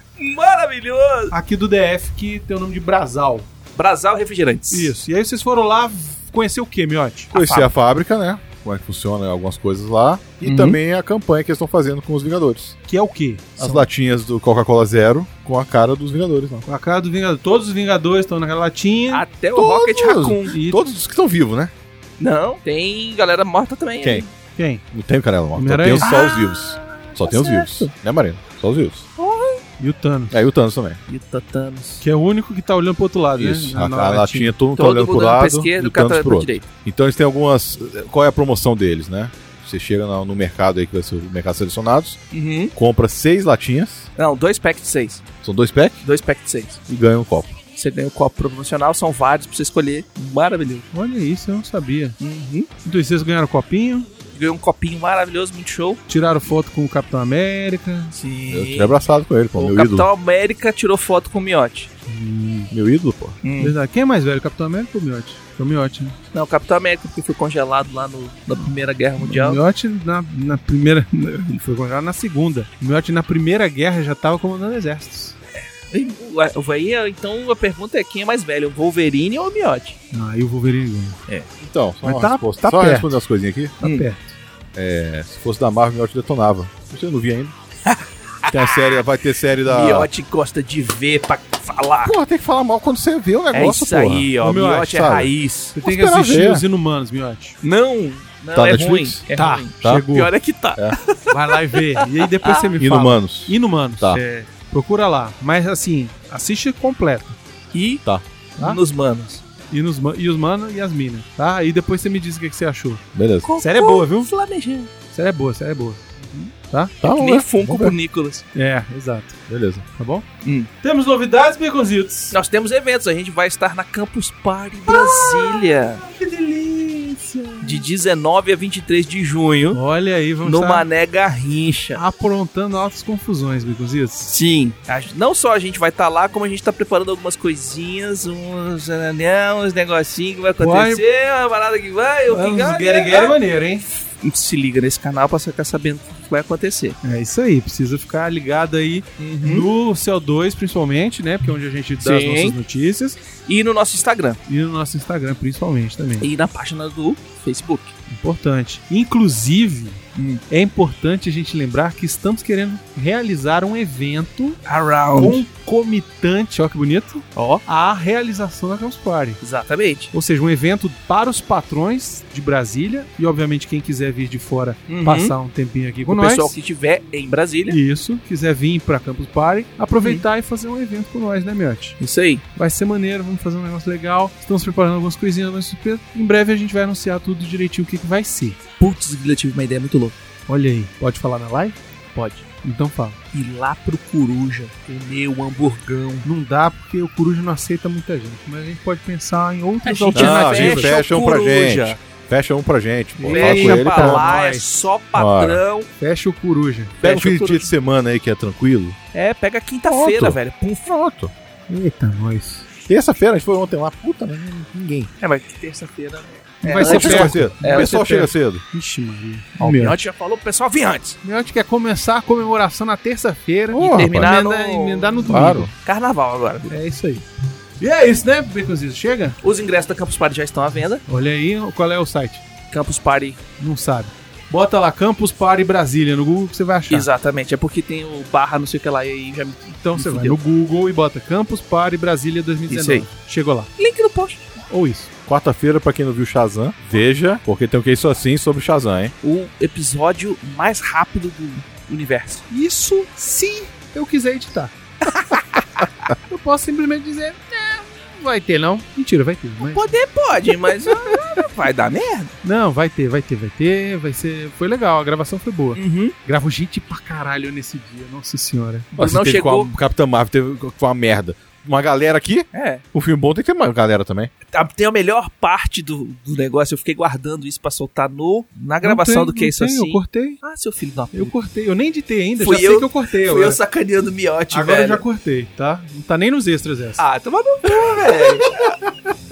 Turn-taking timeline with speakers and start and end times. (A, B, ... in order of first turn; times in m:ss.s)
0:00.2-0:01.3 A
0:01.3-0:03.5 B
0:03.8-0:04.9 A
0:04.7-0:07.3 B
0:07.3-0:07.7 A
0:07.3-0:12.7 C
0:10.4-0:10.8 A
0:12.9-0:13.8 B
0:13.6-0:16.6 C
0:16.6-0:19.2 B
0:19.1-0:20.6 A
0:19.5-0:21.7 C
0:20.5-0:20.8 B
0:22.2-0:24.3 A
0:24.6-0:24.8 B
0:24.9-0:29.0 C
0:25.5-0:26.1 B
0:26.0-0:27.9 A
0:29.2-0:29.6 A
0:29.8-0:30.4 B
0:30.3-0:31.0 C
0:31.1-0:32.0 A
0:32.0-0:34.5 B
0:33.4-0:42.2 C
0:34.8-0:36.7 A
0:42.3-0:42.7 A
0:42.7-0:44.1 C
0:44.2-0:45.2 A
0:45.4-0:46.0 C
0:46.0-0:46.8 A
0:46.9-0:47.6 C
0:47.8-0:50.9 A
0:50.9-0:52.2 B
0:52.2-0:52.7 A
0:52.8-0:54.1 B
0:54.3-0:56.0 A
0:56.1-0:58.1 B
0:58.1-0:59.0 A
0:58.5-1:00.1 C
0:59.6-1:01.9 A
1:02.1-1:02.7 B
1:02.7-1:03.4 C
1:03.4-1:03.7 A
1:03.6-1:06.2 B
1:06.3-1:09.6 A
1:09.2-1:15.3 B
1:15.9-1:20.0 A
1:20.1-1:21.2 B
1:21.6-1:23.8 C
1:22.0-1:23.1 B
1:23.8-1:24.4 B
1:24.7-1:27.5 C
1:27.8-1:29.0 A
1:28.5-1:30.1 C
1:29.6-1:32.2 A
1:32.0-1:36.6 C
1:33.5-1:35.7 A
1:34.4-1:35.1 B
1:35.7-1:37.6 B
1:37.6-1:42.7 A
1:38.5-1:39.2 C
1:38.7-1:40.3 B
1:41.3-1:47.4 B
1:42.8-1:44.2 C
1:44.1-1:44.5 A
1:47.7-1:48.0 A
1:48.6-1:49.4 A
1:49.7-1:53.0 B
1:53.1-1:53.5 C
1:53.4-1:54.9 A
1:53.6-1:54.3 B
1:55.1-1:56.9 B
1:57.0-1:58.0 C
1:57.1-1:58.4 A
1:58.5-1:59.4 B
1:59.5-1:59.8 C
1:59.9-2:00.2 B
2:00.4-2:00.7 A
2:00.8-2:02.4 B
2:02.3-2:06.0 A
2:04.9-2:07.8 B
2:07.6-2:09.8 A
2:09.7-2:10.8 B
2:10.4-2:12.0 A
2:11.9-2:14.3 B
2:14.3-2:23.4 A
2:20.6-2:21.0 B
2:22.3-2:23.8 B
2:24.2-2:27.0 A
2:27.0-2:33.2 B
2:29.2-2:29.7 A
2:32.0-2:32.6 A
2:33.5-2:34.4 A
2:34.5-2:36.3 B
2:36.2-2:37.9 A
2:38.1-2:44.6 B
2:40.2-2:40.4 A
2:44.6-2:45.4 A
2:45.2-2:49.4 B
2:49.4-2:50.1 A
2:50.1-2:56.5 B
2:54.9-2:55.3 A
2:56.1-2:57.8 A
2:57.7-3:02.0 B
3:02.0-3:02.4 A
3:02.5-3:08.6 B
3:08.8-3:10.2 A
3:10.5-3:11.8 B
3:12.1-3:12.4 A
3:12.6-3:13.2 B
3:13.3-3:16.3 A
3:16.2-3:21.0 B
3:19.8-3:22.0 A
3:20.1-3:24.3 C
3:23.2-3:24.7 B
3:23.3-3:25.9 A
3:25.1-3:25.6 C
3:26.0-3:27.0 B
3:27.0-3:29.0 C
3:27.0-3:27.7 A
3:29.1-3:30.9 A
3:29.9-3:31.3 C
3:31.7-3:32.6 B
3:32.9-3:35.1 C
3:35.2-3:37.9 A
3:36.6-3:40.0 B
3:36.8-3:38.6 C
3:39.6-3:41.2 A
3:41.2-3:45.7 B
3:43.7-3:44.3 C
3:43.9-3:46.7 A
3:45.2-3:45.7 C
3:46.7-3:47.2 B
3:47.8-3:49.4 B
3:49.4-3:51.0 A
3:51.1-3:52.4 B
3:52.7-3:53.4 A
3:53.6-3:57.1 B
3:56.9-4:00.4 A
3:59.8-4:03.7 B
4:02.7-4:03.1 A
4:03.8-4:04.6 A
4:04.7-4:05.1 B
4:05.2-4:09.1 C
4:09.2-4:12.4 A
4:12.5-4:14.7 B
4:15.0-4:15.8 A
4:16.2-4:19.9 B
4:19.6-4:22.3 A
4:20.9-4:21.2 B
4:22.4-4:28.9 B
4:25.7-4:26.1 A
4:28.9-4:29.7 A
4:29.0-4:34.3 C
4:32.5-4:32.8 A
4:34.5-4:41.3 A
4:38.8-4:40.4 B
4:41.1-4:43.6 B
4:42.4-4:45.0 A
4:44.5-4:47.0 B
4:47.0-4:48.8 A
4:47.7-4:48.7 B